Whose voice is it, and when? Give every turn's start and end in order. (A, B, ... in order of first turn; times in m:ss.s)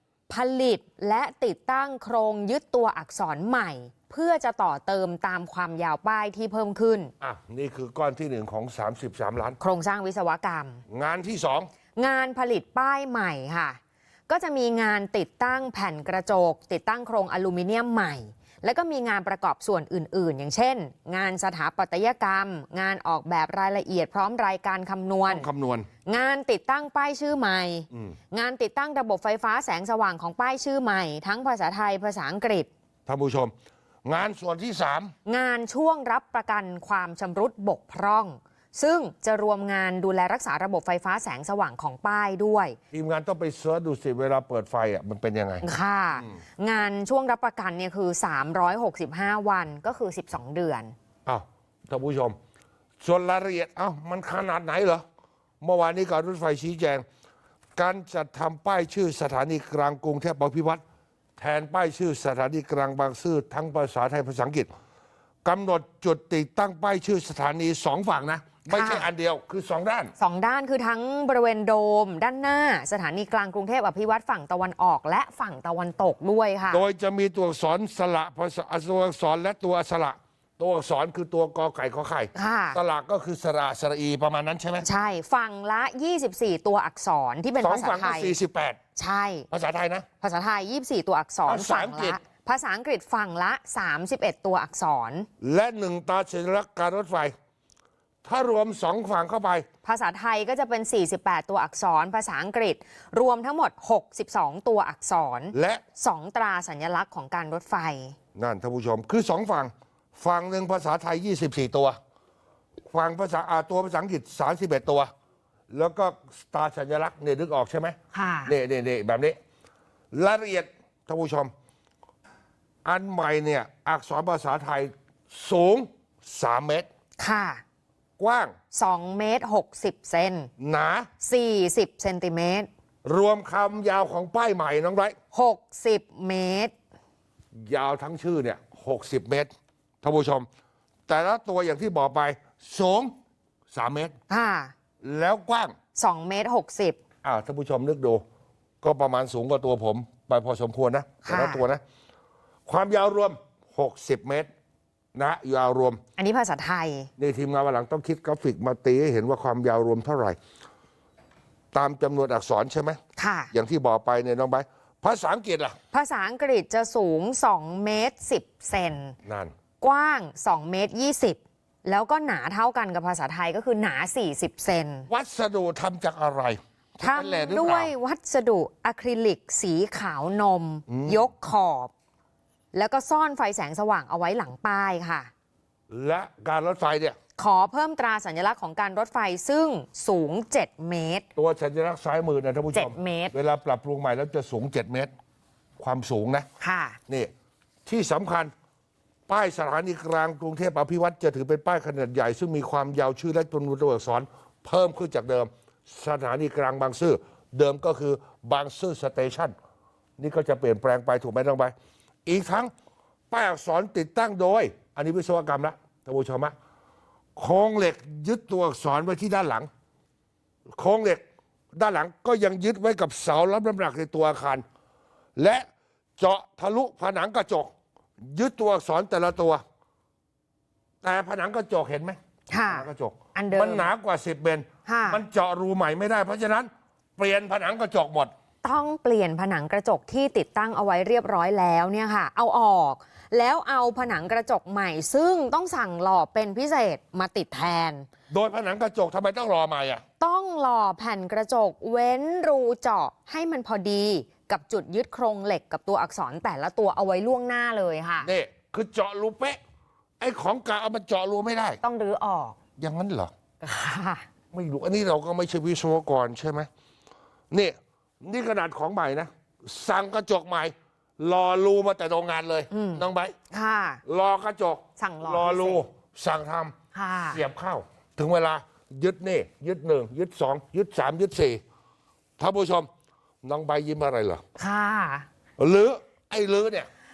0:00.3-0:07.1 A
0:07.2-0:09.6 B
0:09.6-0:10.8 A
0:10.9-0:11.7 B
0:12.0-0:25.5 A
0:25.3-0:25.9 B
0:26.0-0:32.7 A
0:33.0-0:33.5 B
0:34.0-0:35.1 B
0:35.2-0:42.8 A
0:42.9-0:45.6 B
0:45.6-0:50.9 A
0:51.2-0:52.4 B
0:53.0-0:55.0 B
0:55.6-0:57.0 B
0:57.8-1:00.8 B
1:01.4-1:04.7 B
1:05.4-1:10.1 B
1:08.7-1:09.1 A
1:10.2-1:16.8 A
1:16.7-1:24.8 B
1:22.3-1:22.8 A
1:24.8-1:28.3 A
1:27.6-1:28.8 B
1:29.0-1:29.5 A
1:29.5-1:30.0 B
1:30.2-1:35.3 A
1:31.5-1:32.2 B
1:35.4-1:37.3 B
1:38.2-1:39.6 B
1:39.8-1:48.2 A
1:45.5-1:45.8 B
1:48.3-1:52.0 B
1:52.9-1:55.1 B
1:55.7-1:59.4 B
1:58.1-1:58.5 A
2:00.1-2:01.5 B
2:02.8-2:06.9 B
2:07.2-2:07.6 A
2:08.2-2:08.5 B
2:08.7-2:10.5 A
2:10.6-2:11.1 B
2:11.2-2:12.7 A
2:13.0-2:15.2 B
2:15.3-2:16.7 A
2:17.5-2:20.5 B
2:21.1-2:23.1 B
2:23.7-2:24.1 B
2:24.3-2:24.7 A
2:25.0-2:25.7 B
2:26.0-2:27.0 A
2:27.2-2:28.2 B
2:28.8-2:31.8 B
2:31.2-2:31.6 A
2:32.6-2:34.5 B
2:35.1-2:36.0 B
2:36.2-2:37.1 A
2:37.2-2:40.4 B
2:41.7-2:43.0 B
2:43.2-2:43.5 A
2:43.5-2:45.8 B
2:45.9-2:49.2 A
2:49.2-2:49.5 B
2:49.8-2:55.1 A
2:55.1-2:57.9 B
2:57.0-3:01.9 A
3:00.9-3:01.2 B
3:02.7-3:05.3 A
3:05.9-3:07.2 B
3:07.4-3:11.2 A
3:11.4-3:15.1 B
3:12.7-3:13.3 A
3:15.8-3:16.4 B
3:16.6-3:17.0 A
3:17.8-3:18.5 B
3:19.3-3:29.5 B
3:30.2-3:31.7 B
3:32.2-3:32.7 B
3:33.3-3:36.5 B
3:37.4-3:39.7 B
3:40.8-3:41.2 B
3:41.7-3:44.6 B
3:45.4-3:45.7 B
3:46.2-3:49.6 B
3:51.0-3:52.2 B
3:52.5-3:53.9 A
3:52.7-3:58.3 B
3:54.8-3:55.2 A
3:58.6-4:08.1 A
4:08.3-4:10.0 B
4:10.2-4:18.3 A
4:18.2-4:19.6 B
4:20.2-4:21.8 B
4:21.8-4:22.6 A
4:22.8-4:23.3 B
4:23.6-4:24.2 A
4:24.5-4:26.7 B
4:27.5-4:33.3 B
4:32.7-4:34.0 A
4:34.0-4:36.7 B
4:35.0-4:35.8 A
4:36.9-4:37.4 A
4:37.3-4:41.6 B
4:42.4-4:42.9 B
4:43.4-4:44.4 B
4:44.6-4:45.3 A
4:45.6-4:46.9 B